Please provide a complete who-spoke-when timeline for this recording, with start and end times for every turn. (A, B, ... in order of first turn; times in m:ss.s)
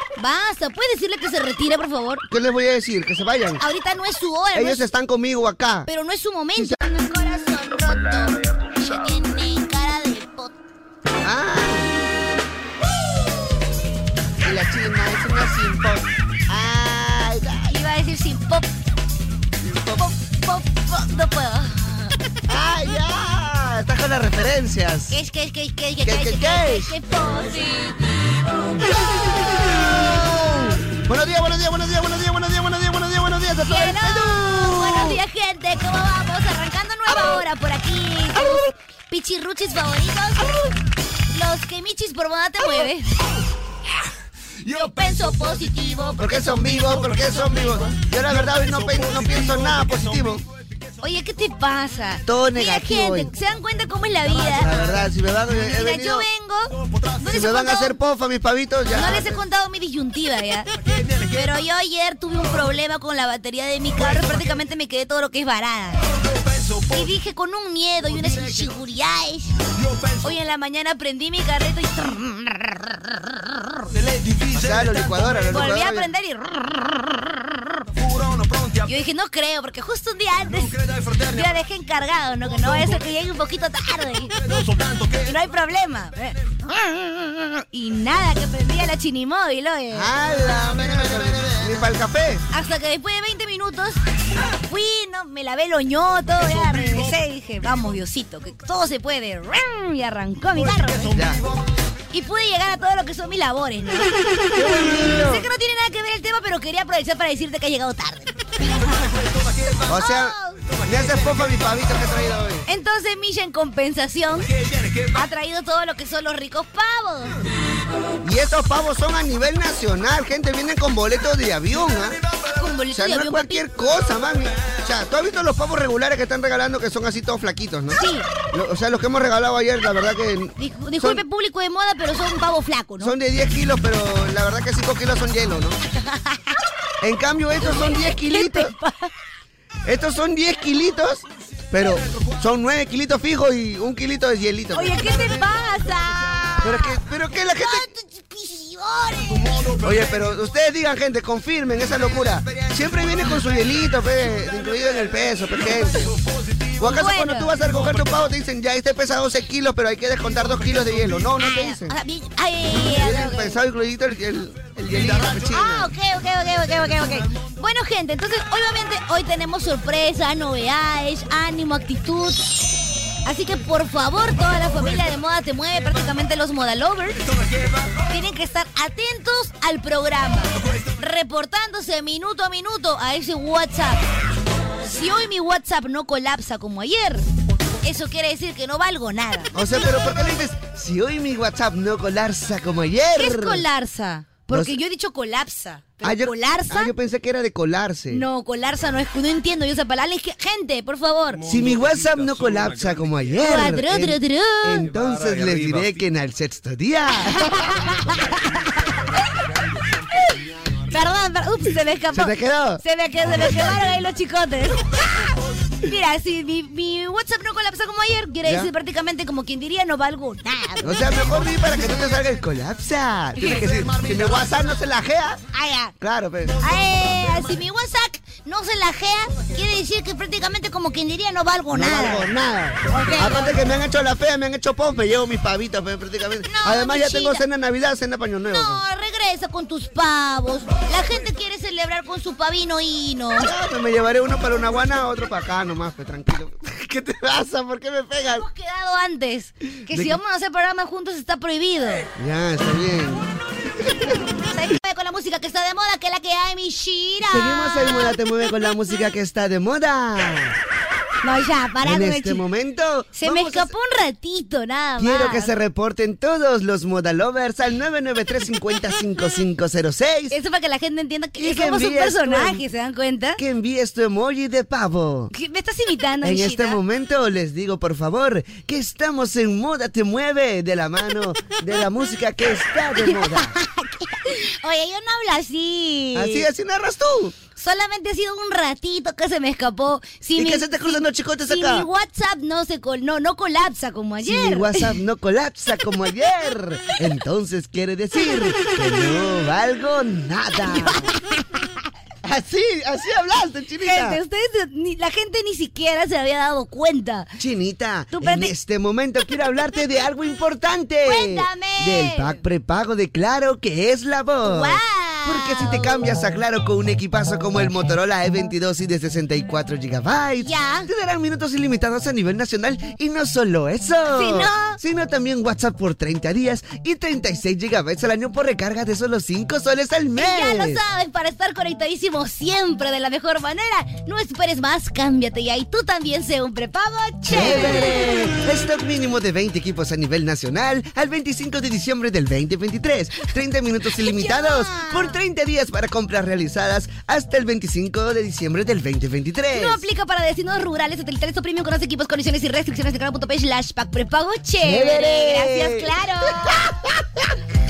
0:00.2-0:02.2 A
0:02.3-0:03.6 B
0:03.6-0:04.8 A
0:04.5-0:05.9 B
0:05.9-0:10.6 A
0:11.2-0:11.9 B
0:14.4-0:17.8 B
0:17.7-0:18.7 A
0:19.6-0:20.0 B
0:20.0-0:22.1 A
0:22.5-0:25.2 B
0:25.1-0:30.0 A
0:26.0-0:26.9 B
0:29.1-0:35.2 B
0:33.6-0:40.5 A
0:37.1-0:37.4 B
0:41.3-0:43.1 A
0:44.6-0:46.7 A
0:46.2-0:50.4 B
0:51.0-0:54.8 A
0:52.2-0:53.3 B
0:54.4-0:56.2 B
0:55.6-0:57.9 A
0:57.2-0:59.4 B
0:58.9-1:00.7 A
1:01.3-1:06.0 A
1:06.9-1:09.5 A
1:10.2-1:13.6 A
1:14.5-1:16.1 B
1:15.5-1:17.4 A
1:18.8-1:24.4 A
1:25.2-1:30.1 A
1:29.9-1:32.4 B
1:32.5-1:34.0 A
1:34.6-1:41.2 A
1:41.1-1:41.4 B
1:42.1-1:44.1 A
1:44.5-1:45.4 B
1:45.0-1:49.1 A
1:49.8-1:52.6 B
1:49.9-1:50.6 A
1:52.7-1:54.5 A
1:55.1-1:57.4 A
1:58.2-2:02.2 B
2:02.5-2:03.6 A
2:02.9-2:08.0 B
2:07.9-2:08.3 A
2:08.5-2:11.2 B
2:10.6-2:13.1 A
2:13.0-2:15.8 B
2:16.0-2:16.4 A
2:17.0-2:18.7 B
2:17.6-2:19.1 A
2:19.8-2:25.2 B
2:24.7-2:27.0 A
2:26.6-2:27.9 B
2:27.6-2:29.6 A
2:29.8-2:36.2 B
2:36.8-2:41.9 B
2:36.8-2:37.6 A
2:41.4-2:43.6 A
2:42.7-2:45.9 B
2:45.5-2:52.6 A
2:53.2-2:57.3 A
2:58.0-3:04.0 A
3:04.8-3:07.2 A
3:07.8-3:09.5 A
3:09.5-3:13.6 B
3:13.2-3:16.9 A
3:14.5-3:14.8 B
3:16.0-3:18.2 B
3:18.1-3:21.4 A
3:21.4-3:27.4 B
3:23.4-3:24.9 A
3:27.3-3:28.2 A
3:30.9-3:35.3 A
3:32.1-3:32.8 B
3:33.4-3:33.7 B
3:35.8-3:41.0 A
3:38.4-3:38.7 B
3:40.8-3:45.4 B
3:43.4-3:43.6 A
3:45.5-3:45.9 A
3:46.0-3:46.6 B
3:46.6-3:52.3 A
3:51.7-3:58.8 B
3:52.9-3:53.6 A
3:56.5-3:57.4 A
3:58.5-4:03.5 A
4:03.4-4:08.4 B
4:08.3-4:12.1 A
4:09.9-4:10.2 B
4:12.2-4:13.2 B
4:13.8-4:14.1 B
4:14.5-4:18.1 A
4:17.2-4:20.5 B
4:21.2-4:22.4 A
4:21.8-4:23.7 B
4:23.1-4:25.5 A
4:25.0-4:30.4 B
4:30.3-4:33.4 A
4:31.4-4:32.6 B
4:33.4-4:35.3 B
4:35.3-4:36.8 A
4:36.2-4:43.5 B
4:43.0-4:46.4 A
4:46.1-4:47.3 B
4:47.6-4:54.9 A
4:50.4-4:51.9 B
4:54.2-5:01.1 B
5:00.7-5:01.4 A
5:02.2-5:04.2 B
5:03.8-5:07.3 A
5:07.4-5:30.8 B
5:08.1-5:08.5 A
5:11.0-5:12.4 A
5:14.4-5:15.9 A
5:20.4-5:20.9 A
5:24.1-5:24.8 A
5:30.2-5:38.0 A
5:37.2-5:49.8 B
5:44.0-5:45.2 A
5:49.5-5:56.6 A
5:54.6-5:57.2 B